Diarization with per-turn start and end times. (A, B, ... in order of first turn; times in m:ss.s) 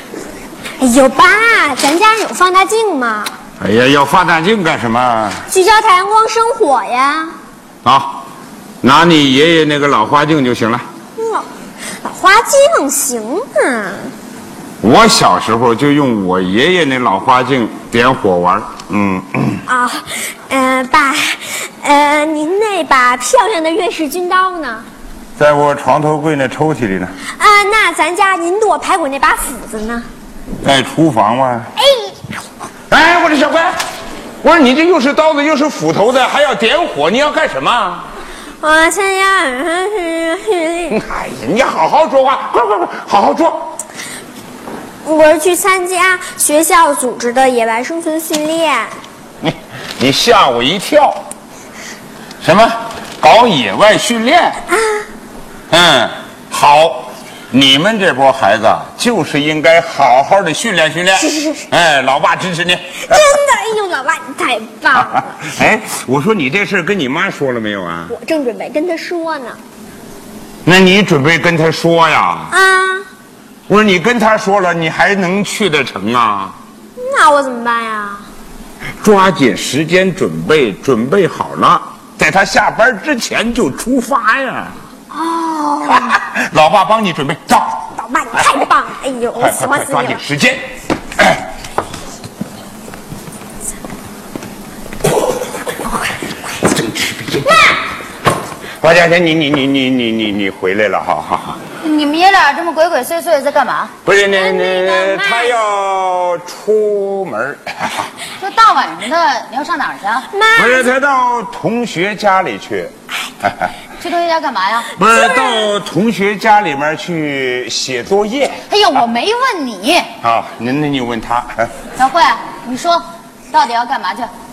0:00.8-0:03.3 A
0:03.6-0:05.4 B
0:05.5-0:07.3 A
0:07.8-0:08.2 B
0:08.8-0:10.8 B
0:11.2-0:11.5 A
0:12.0-0:14.1 A
0:14.8-0:19.6 B
0:19.7-0:24.8 A
0:25.4-0:27.2 B
0:27.4-0:30.1 A
0:30.6-0:31.7 B
0:31.8-0:32.2 A
0:32.9-0:33.8 B
0:34.4-0:38.1 B
0:38.6-0:41.0 A
0:40.9-0:43.7 B
0:45.0-0:48.9 A
0:49.4-0:51.2 B
0:52.4-0:54.6 B
0:54.7-0:55.0 A
0:55.7-1:03.2 B
1:01.2-1:01.6 A
1:03.0-1:05.3 A
1:04.9-1:08.1 B
1:08.1-1:09.6 A
1:10.6-1:12.5 B
1:12.5-1:13.0 A
1:13.7-1:16.6 B
1:17.0-1:18.2 A
1:19.0-1:24.7 B
1:25.1-1:26.1 A
1:25.8-1:27.9 B
1:28.0-1:30.2 A
1:29.4-1:30.6 B
1:36.6-1:37.7 B
1:37.5-1:37.7 A
1:38.8-1:41.6 B
1:41.8-1:43.9 C
1:44.0-1:48.1 B
1:44.2-1:45.6 A
1:48.4-1:50.3 C
1:50.3-1:50.9 A
1:50.5-1:52.9 B
1:54.0-1:54.9 C
1:55.0-1:58.6 B
1:55.0-1:55.7 A
1:58.7-2:00.1 C
2:00.2-2:01.7 B
2:02.0-2:04.3 C